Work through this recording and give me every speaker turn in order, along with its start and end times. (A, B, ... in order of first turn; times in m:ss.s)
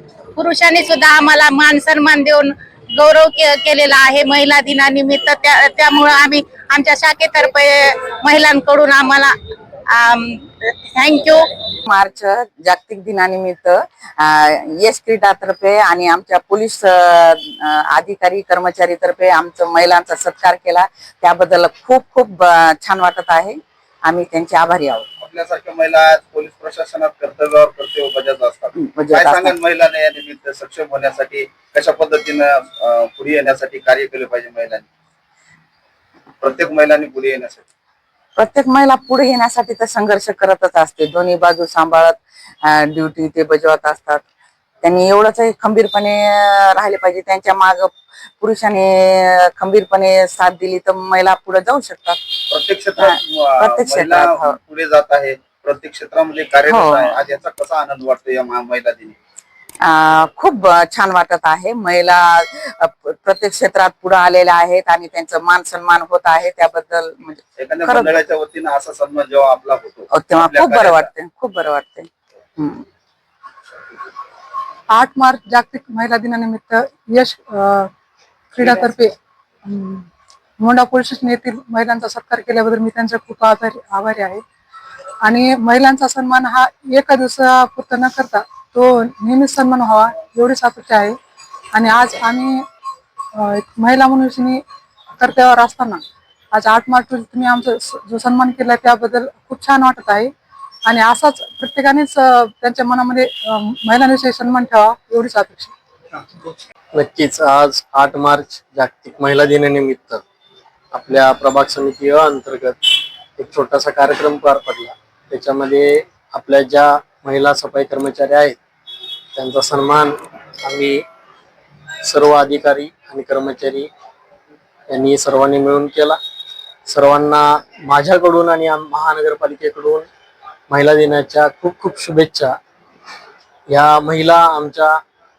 0:00.4-0:09.3 A
0:09.9-0:11.4 A
0:11.9-0:25.1 B
0:25.2-0:34.9 C
0:28.8-0:29.6 B
0:36.4-0:37.6 C
0:38.4-0:44.2 B
0:44.8-0:52.2 B
0:52.5-0:59.2 C
0:53.0-0:54.6 B
0:56.7-0:57.2 B
0:59.8-1:08.2 B
1:07.6-1:11.1 C
1:10.1-1:12.8 B
1:14.9-1:17.9 D
1:18.5-1:20.1 D
1:20.6-1:24.4 D
1:25.2-1:31.2 D
1:31.7-1:32.6 D
1:33.4-1:34.6 D
1:35.2-1:36.0 D
1:36.5-1:40.3 D
1:40.9-1:45.7 D
1:46.9-1:50.2 E
1:50.9-1:58.6 E
1:59.4-2:01.0 E
2:02.0-2:03.9 E
2:04.9-2:06.2 E
2:06.9-2:10.1 E
2:10.7-2:12.6 E
2:13.7-2:15.0 E